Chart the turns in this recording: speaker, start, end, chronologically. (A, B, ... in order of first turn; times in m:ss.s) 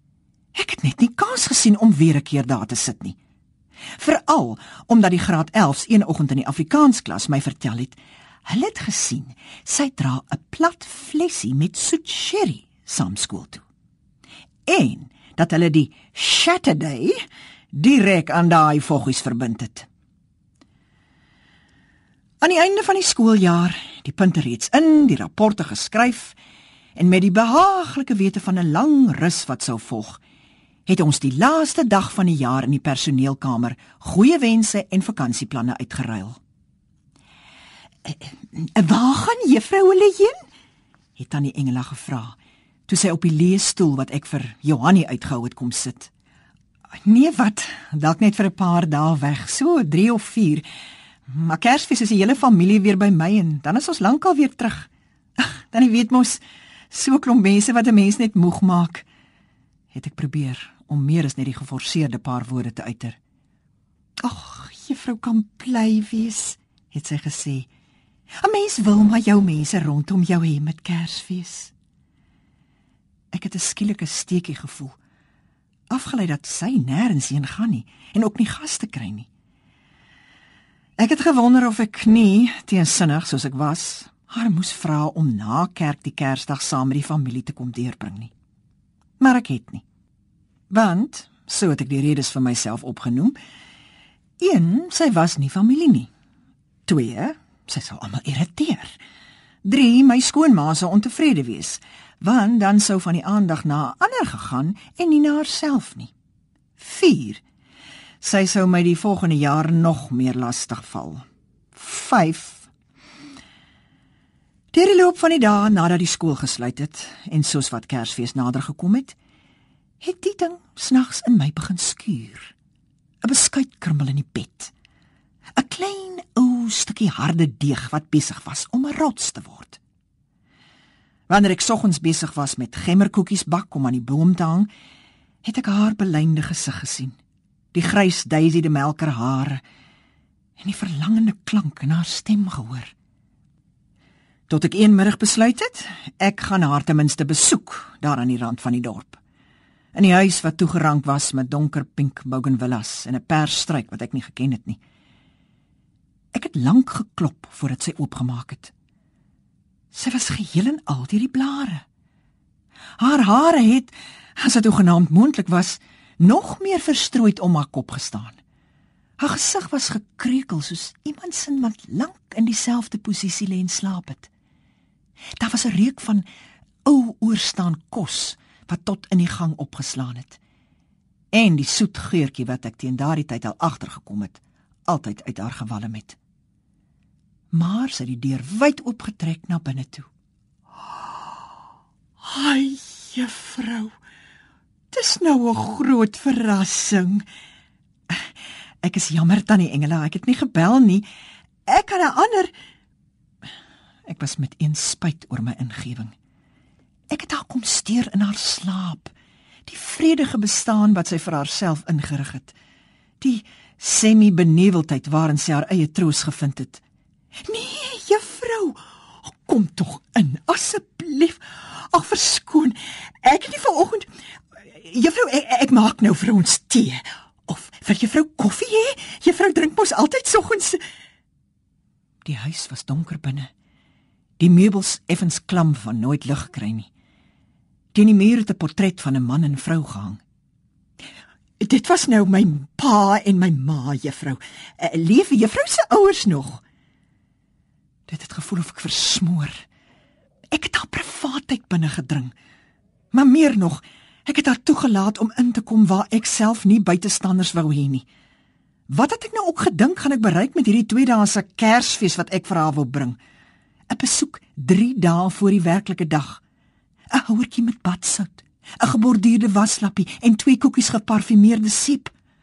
0:00.6-0:03.2 A
0:04.0-0:13.6 A
0:14.6-0:17.2 A
0:17.7-0:19.9 A
0:22.4-0:26.4 A
0:27.0-0:30.2 A
0:30.9-0:36.4 A
0:38.0-0:40.4 A
0:41.2-0:46.1 A
0:47.0-0:50.7 A
0:51.3-0:59.0 A
0:59.9-1:03.2 A
1:04.2-1:07.7 A
1:08.4-1:11.7 A
1:13.3-1:15.0 A
1:15.9-1:19.3 A
1:21.0-1:28.3 A
1:29.2-1:29.8 A
1:30.7-1:33.4 A
1:34.4-1:36.1 A
1:36.8-1:39.0 A
1:39.6-1:46.1 A
1:46.8-1:47.4 A
1:48.2-1:52.7 A
1:54.7-1:59.2 A
2:00.0-2:02.5 A
2:03.2-2:04.7 A
2:05.6-2:09.8 A
2:11.3-2:14.7 A
2:15.4-2:17.2 A
2:17.7-2:19.6 A
2:20.6-2:22.9 A
2:24.5-2:29.2 A
2:29.9-2:34.8 A
2:36.3-2:38.7 A
2:39.9-2:41.8 A
2:43.0-2:48.4 A
2:49.2-2:54.3 A
2:55.4-2:56.3 A
2:56.8-3:00.4 A
3:01.3-3:06.2 A
3:07.5-3:10.1 A
3:12.2-3:13.9 A
3:14.9-3:17.2 A
3:18.8-3:21.0 A
3:21.7-3:22.5 A
3:24.1-3:26.1 A
3:27.1-3:29.1 A
3:29.7-3:32.5 A
3:33.2-3:36.8 A
3:37.5-3:44.1 A
3:44.7-3:50.8 A
3:52.2-3:53.5 A
3:54.4-3:56.9 A
3:57.9-4:00.2 A
4:01.6-4:06.6 A
4:08.1-4:09.6 A
4:10.5-4:12.3 A
4:13.1-4:18.0 A
4:18.9-4:23.2 A
4:23.9-4:26.4 A
4:27.1-4:32.1 A